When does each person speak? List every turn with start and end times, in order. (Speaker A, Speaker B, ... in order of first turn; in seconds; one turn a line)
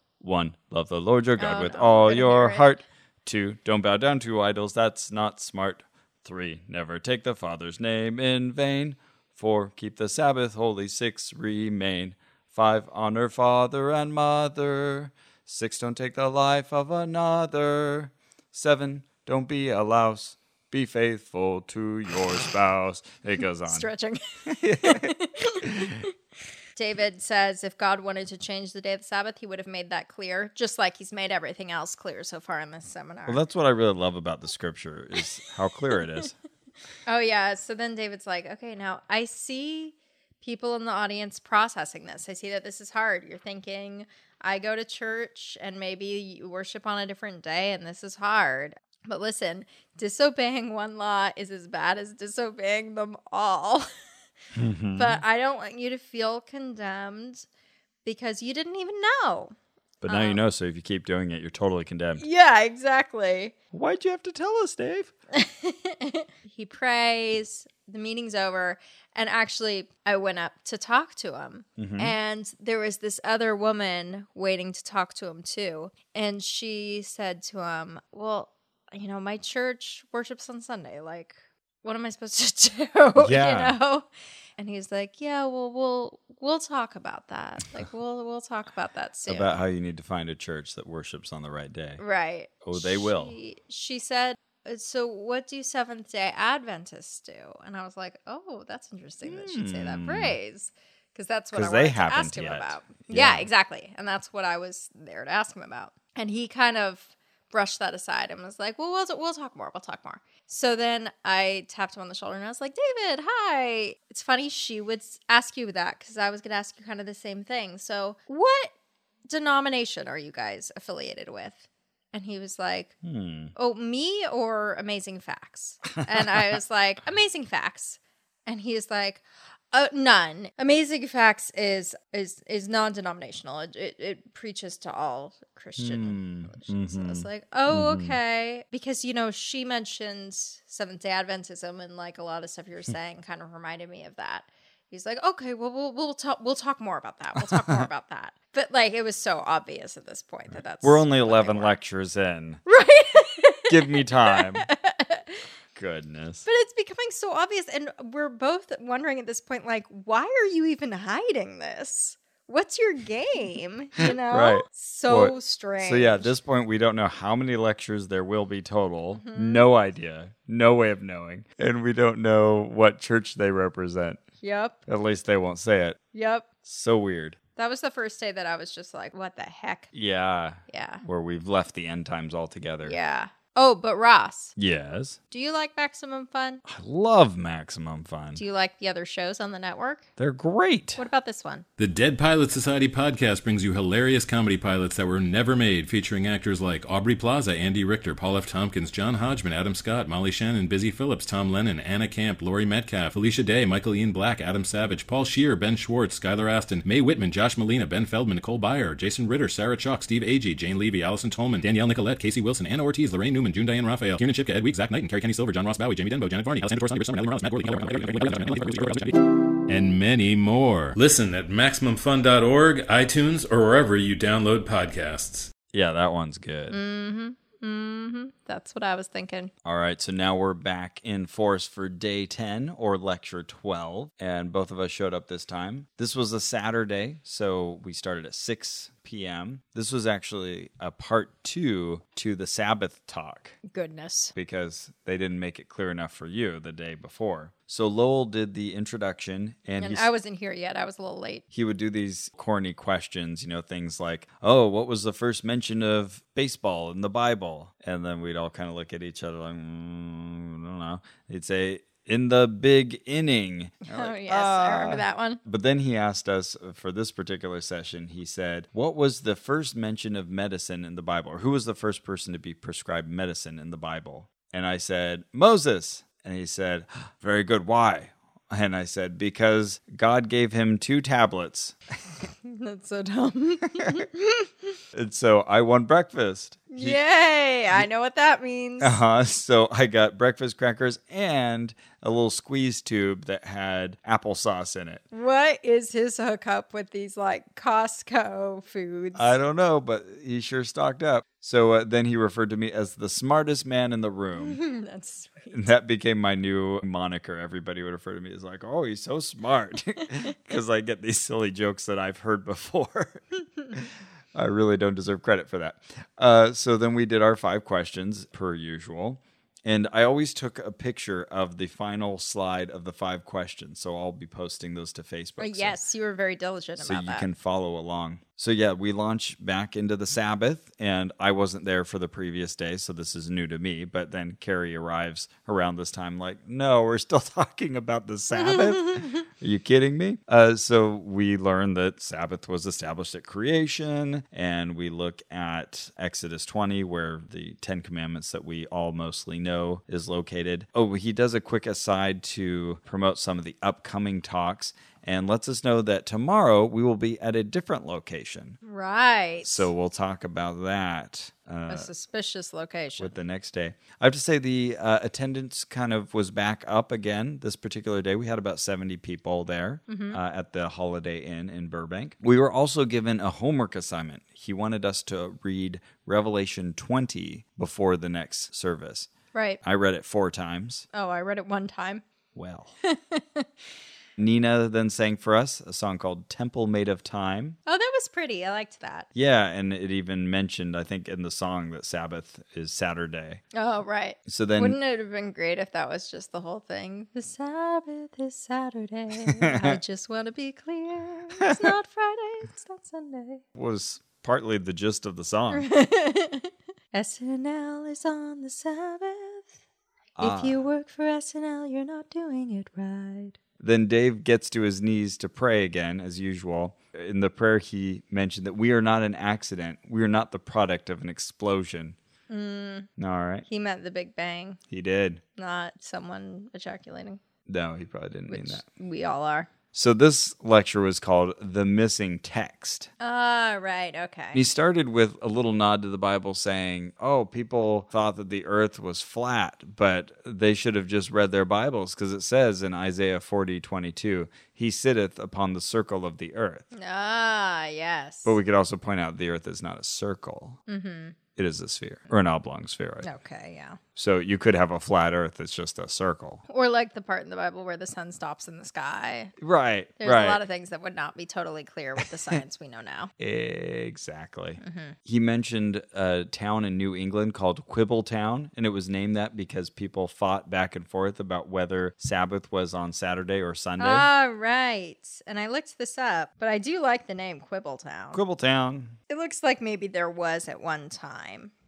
Speaker A: 0.2-23.9
Speaker B: 1.4-2.8
Speaker B: 23.6-26.0
Speaker A: 24.5-26.0
Speaker B: 26.8-33.4
Speaker A: 33.3-36.3
Speaker B: 37.0-53.9
Speaker A: 54.5-55.2
Speaker B: 55.0-57.5
Speaker B: 58.0-59.5
Speaker A: 60.0-62.2
Speaker B: 60.0-60.4
Speaker B: 62.2-63.5
Speaker A: 63.7-65.1
Speaker B: 65.3-84.1
Speaker A: 71.8-72.1
Speaker A: 83.2-83.8
Speaker B: 84.6-89.5
Speaker A: 89.2-92.0
Speaker B: 92.0-118.7
Speaker A: 92.6-93.3
Speaker A: 99.2-100.3
Speaker A: 101.5-103.5
Speaker B: 119.3-122.9
Speaker A: 123.0-123.5
Speaker B: 123.5-151.7
Speaker A: 125.9-126.6
Speaker A: 135.8-138.2
Speaker A: 147.4-147.9
Speaker A: 150.5-152.6
Speaker B: 152.7-155.4
Speaker A: 153.7-154.7
Speaker A: 155.7-156.4
Speaker B: 156.4-166.3
Speaker A: 164.0-174.2
Speaker B: 169.1-169.7
Speaker B: 174.4-174.8
Speaker A: 174.9-176.0
Speaker B: 176.1-176.4
Speaker A: 176.6-177.4
Speaker B: 177.6-179.9
Speaker A: 179.9-183.0
Speaker B: 180.7-181.0
Speaker B: 182.8-184.5
Speaker A: 184.6-185.2
Speaker B: 185.3-186.6
Speaker A: 186.7-188.4
Speaker B: 188.3-190.1
Speaker A: 190.2-191.0
Speaker B: 191.0-191.6
Speaker C: 191.8-225.5
Speaker A: 225.7-226.8
Speaker B: 226.7-229.5
Speaker A: 229.6-243.6
Speaker B: 243.7-244.3
Speaker A: 244.3-250.1
Speaker B: 249.8-251.4
Speaker A: 251.5-281.8
Speaker B: 263.8-265.4
Speaker B: 282.4-284.5
Speaker A: 284.9-287.0
Speaker B: 286.7-289.0
Speaker A: 288.8-295.0
Speaker B: 295.1-299.4
Speaker A: 299.1-304.6
Speaker B: 304.4-305.7
Speaker A: 305.5-313.2
Speaker A: 314.3-325.8
Speaker B: 325.4-327.3
Speaker A: 326.8-358.6
Speaker B: 338.3-339.2
Speaker B: 358.6-359.7
Speaker A: 359.4-361.9
Speaker B: 361.7-363.1
Speaker A: 363.0-379.1
Speaker B: 369.9-370.2
Speaker B: 379.3-379.6
Speaker A: 379.6-380.9
Speaker B: 380.9-382.0
Speaker A: 382.3-382.7
Speaker B: 382.8-383.5
Speaker A: 384.2-387.6
Speaker B: 387.7-389.1
Speaker A: 389.1-393.4
Speaker B: 393.5-403.4
Speaker A: 394.2-394.8
Speaker A: 399.3-399.8
Speaker A: 401.4-401.7
Speaker A: 403.6-405.7
Speaker B: 405.5-409.5
Speaker A: 410.2-410.6
Speaker B: 410.2-413.4
Speaker A: 413.6-422.0
Speaker B: 422.3-422.9
Speaker A: 423.0-423.4
Speaker B: 423.5-424.6
Speaker A: 424.7-425.2
Speaker B: 425.4-427.2
Speaker A: 427.5-428.6
Speaker B: 428.3-429.5
Speaker A: 429.7-432.9
Speaker B: 433.0-434.4
Speaker A: 434.3-446.6
Speaker B: 446.7-448.4
Speaker A: 448.2-450.6
Speaker B: 450.7-451.1
Speaker A: 451.4-453.1
Speaker B: 453.0-453.8
Speaker A: 453.9-456.4
Speaker B: 456.5-459.3
Speaker A: 459.4-460.4
Speaker B: 460.0-463.1
Speaker A: 462.0-462.3
Speaker A: 463.2-474.1
Speaker B: 464.6-464.9
Speaker B: 473.8-478.2
Speaker A: 478.1-479.0
Speaker B: 479.1-481.5